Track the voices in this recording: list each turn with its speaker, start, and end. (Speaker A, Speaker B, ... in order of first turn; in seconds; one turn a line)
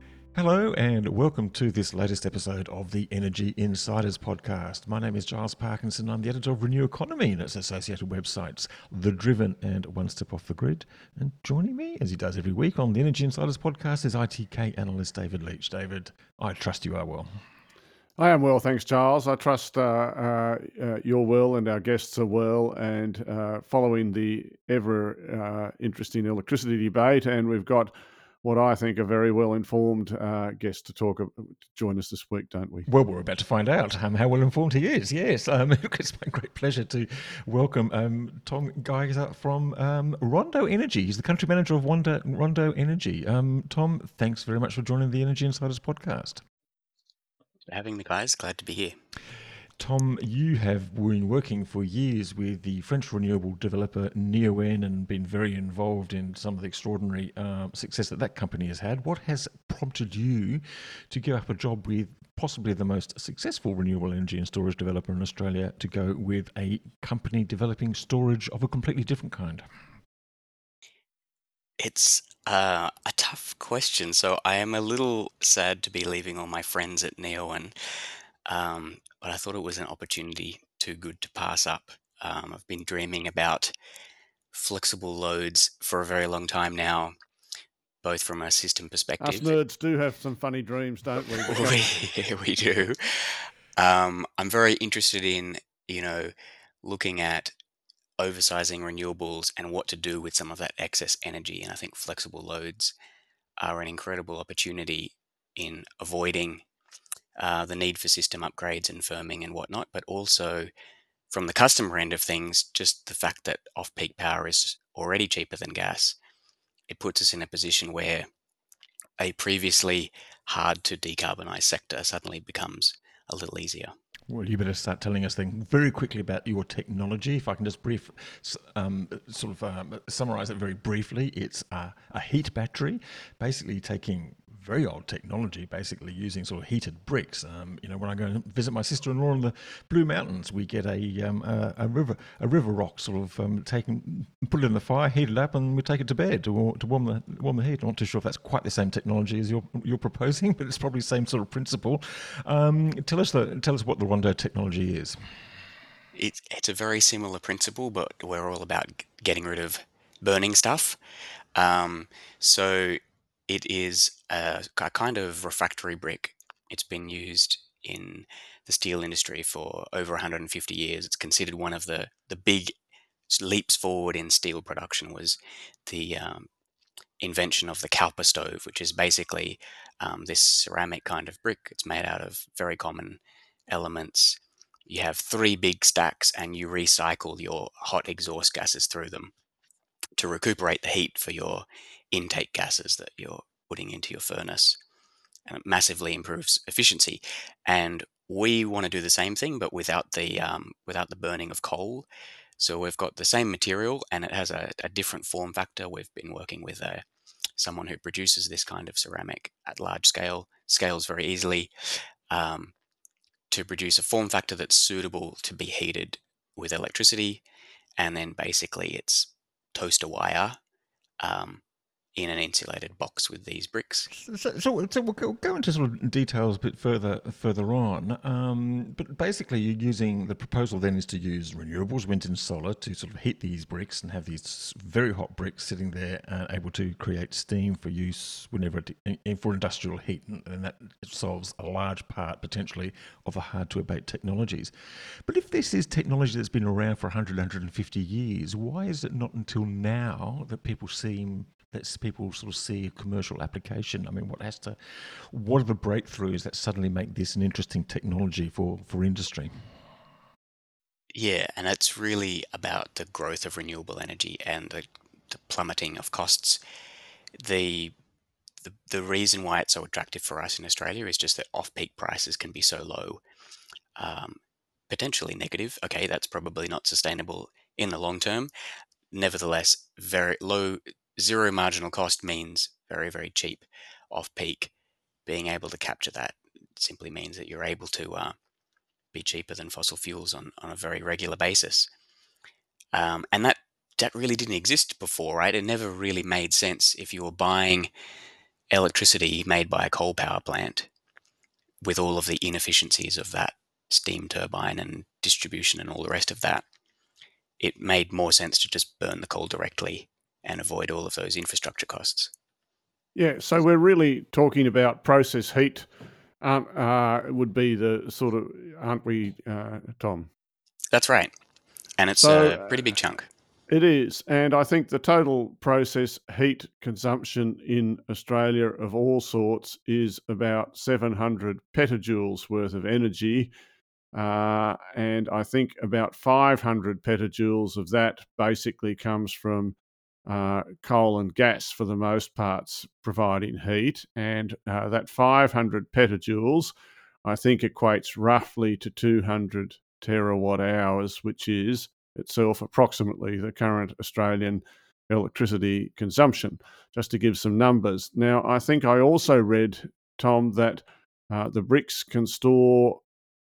Speaker A: 0.3-17.3
Speaker B: 18.2-32.9
Speaker A: 32.9-46.4
Speaker C: 47.7-48.9
Speaker A: 49.8-69.6
Speaker C: 71.8-77.7
Speaker C: 78.5-83.7
Speaker C: 84.5-87.1
Speaker C: 88.0-89.5
Speaker B: 89.2-91.9
Speaker C: 91.5-97.5
Speaker C: 98.2-102.9
Speaker C: 103.6-106.6
Speaker C: 107.4-110.7
Speaker C: 111.3-116.2
Speaker C: 116.9-118.3
Speaker C: 119.2-123.9
Speaker A: 124.3-155.3
Speaker C: 156.1-161.0
Speaker C: 161.5-172.7
Speaker C: 173.3-175.3
Speaker C: 175.9-176.5
Speaker C: 177.2-189.3
Speaker C: 190.2-194.8
Speaker C: 195.4-202.1
Speaker C: 202.6-207.0
Speaker C: 207.6-211.7
Speaker C: 212.3-212.7
Speaker C: 213.5-217.4
Speaker C: 218.0-220.6
Speaker C: 221.2-221.6
Speaker C: 222.2-224.1
Speaker A: 224.1-259.5
Speaker C: 261.1-266.6
Speaker C: 267.4-267.9
Speaker C: 268.6-273.2
Speaker C: 274.0-274.4
Speaker C: 274.9-278.5
Speaker C: 279.1-284.7
Speaker C: 285.2-288.4
Speaker C: 289.1-291.9
Speaker C: 292.9-297.9
Speaker C: 298.7-300.9
Speaker C: 301.8-306.6
Speaker C: 307.6-312.3
Speaker B: 313.1-315.9
Speaker B: 316.4-320.3
Speaker C: 320.9-321.3
Speaker C: 322.0-323.2
Speaker B: 322.2-322.8
Speaker B: 323.7-333.5
Speaker B: 334.1-346.7
Speaker B: 347.2-363.0